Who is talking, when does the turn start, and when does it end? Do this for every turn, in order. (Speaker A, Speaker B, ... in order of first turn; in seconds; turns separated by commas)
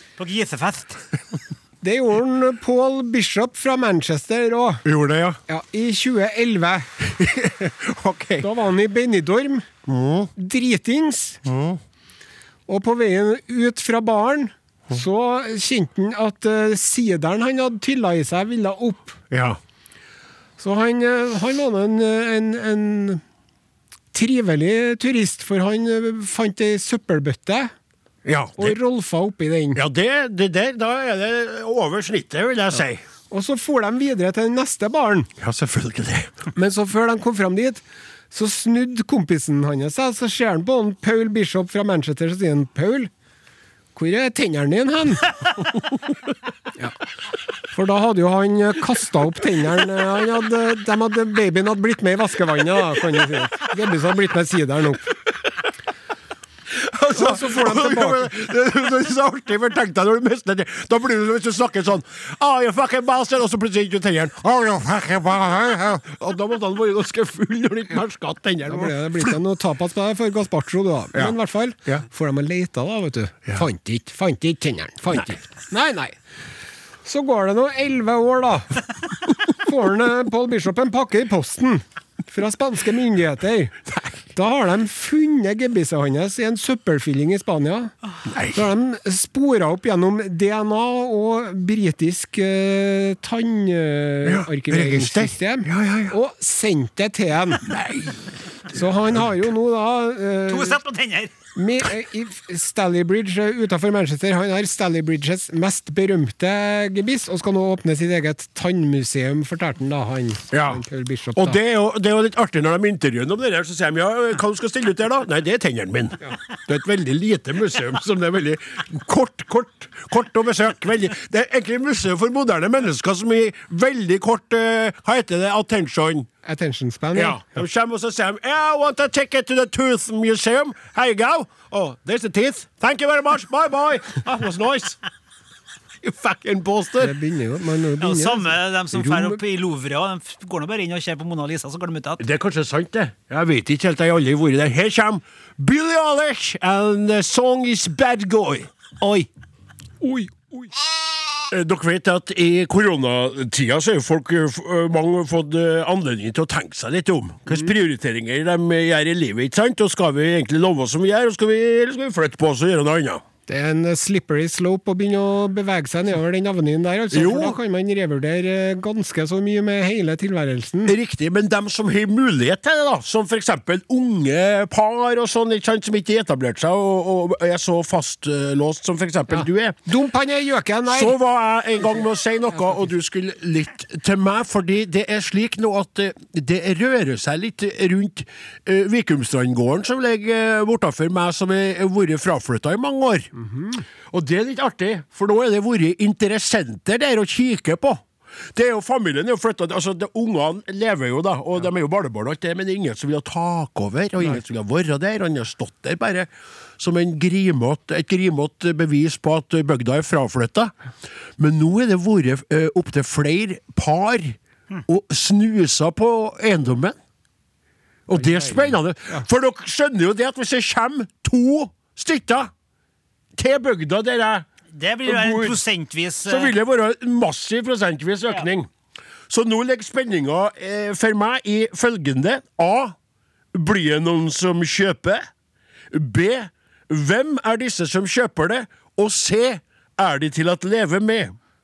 Speaker A: 0.2-1.0, Speaker B: 1.8-4.8, Speaker C: 4.8-5.4, Speaker B: 5.5-6.9, Speaker C: 7.1-8.5, Speaker B: 8.4-9.7, Speaker C: 9.8-10.3, Speaker B: 10.3-11.4, Speaker C: 11.4-11.8, Speaker B: 12.7-19.2, Speaker C: 19.3-19.6, Speaker B: 20.6-23.2, Speaker B: 24.1-27.7, Speaker C: 28.2-28.8, Speaker B: 28.6-29.8, Speaker C: 29.7-33.0, Speaker B: 33.3-35.3, Speaker C: 35.4-36.3, Speaker B: 36.5-43.1, Speaker B: 43.9-45.3, Speaker B: 47.7-55.1, Speaker C: 56.7-69.3, Speaker B: 57.1-58.3, Speaker B: 68.7-76.2, Speaker B: 77.0-78.8, Speaker B: 79.5-83.8, Speaker B: 84.3-87.9, Speaker C: 88.3-88.7, Speaker B: 88.5-97.7, Speaker C: 94.2-96.2, Speaker C: 97.6-99.3, Speaker B: 98.7-100.8, Speaker A: 100.5-101.3, Speaker B: 101.5-111.6, Speaker C: 110.5-110.8, Speaker C: 111.3-126.3, Speaker B: 126.4-127.5, Speaker C: 127.1-135.0, Speaker C: 136.0-137.1, Speaker B: 137.0-139.4, Speaker A: 138.0-142.2, Speaker C: 142.2-148.7, Speaker A: 149.0-149.3, Speaker B: 150.0-150.7, Speaker C: 151.5-163.2, Speaker B: 163.5-170.9, Speaker C: 167.1-167.6, Speaker C: 170.8-179.8, Speaker B: 179.3-181.2, Speaker C: 180.9-193.3, Speaker B: 193.4-193.7, Speaker C: 194.1-210.7, Speaker C: 211.4-217.0, Speaker C: 218.1-222.5, Speaker C: 223.3-224.5, Speaker A: 224.7-226.5, Speaker C: 225.0-225.6, Speaker C: 226.2-228.7, Speaker C: 229.3-232.9, Speaker C: 233.5-235.2, Speaker C: 235.9-241.3